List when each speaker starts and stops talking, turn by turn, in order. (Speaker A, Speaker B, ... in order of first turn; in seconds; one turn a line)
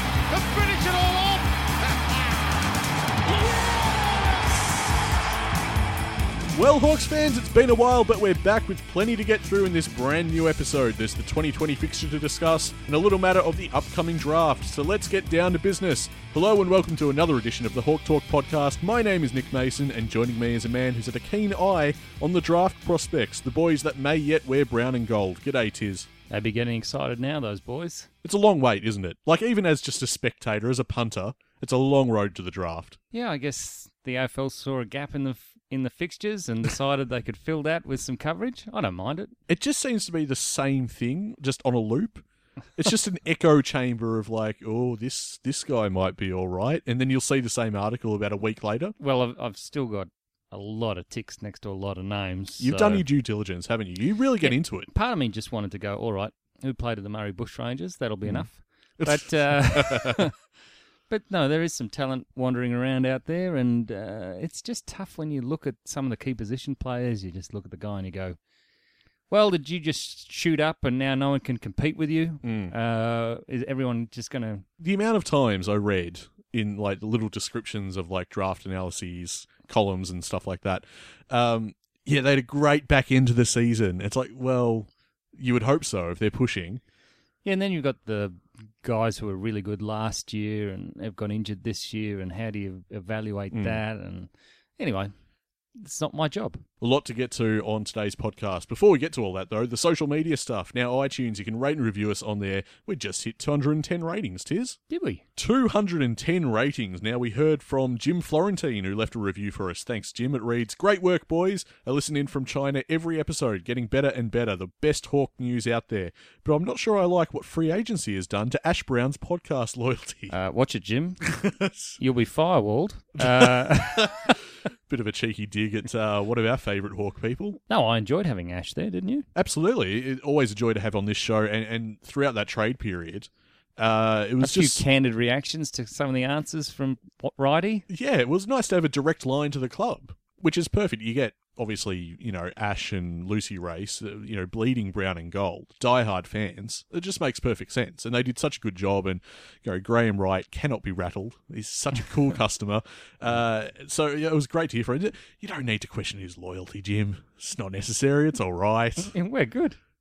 Speaker A: 0.3-2.5
Speaker A: 3.2-4.9
Speaker B: 6.5-26.1
Speaker C: 26.3-28.1
Speaker B: 28.2-33.0
Speaker C: 33.1-39.3
Speaker B: 39.5-42.2
Speaker B: 42.8-49.0
Speaker C: 49.0-53.0
Speaker B: 52.6-54.9
Speaker C: 54.4-60.4
Speaker B: 58.2-60.2
Speaker C: 61.1-68.4
Speaker C: 69.3-74.6
Speaker B: 72.4-72.7
Speaker B: 74.8-86.8
Speaker C: 87.4-95.1
Speaker B: 93.5-93.8
Speaker C: 95.8-96.6
Speaker B: 96.8-104.8
Speaker C: 104.9-105.2
Speaker B: 105.3-120.3
Speaker C: 120.3-121.2
Speaker B: 121.2-122.0
Speaker C: 122.0-124.3
Speaker B: 123.2-124.4
Speaker B: 124.9-127.6
Speaker C: 127.7-129.3
Speaker B: 129.3-134.8
Speaker C: 134.4-137.8
Speaker B: 137.9-159.1
Speaker C: 159.1-159.8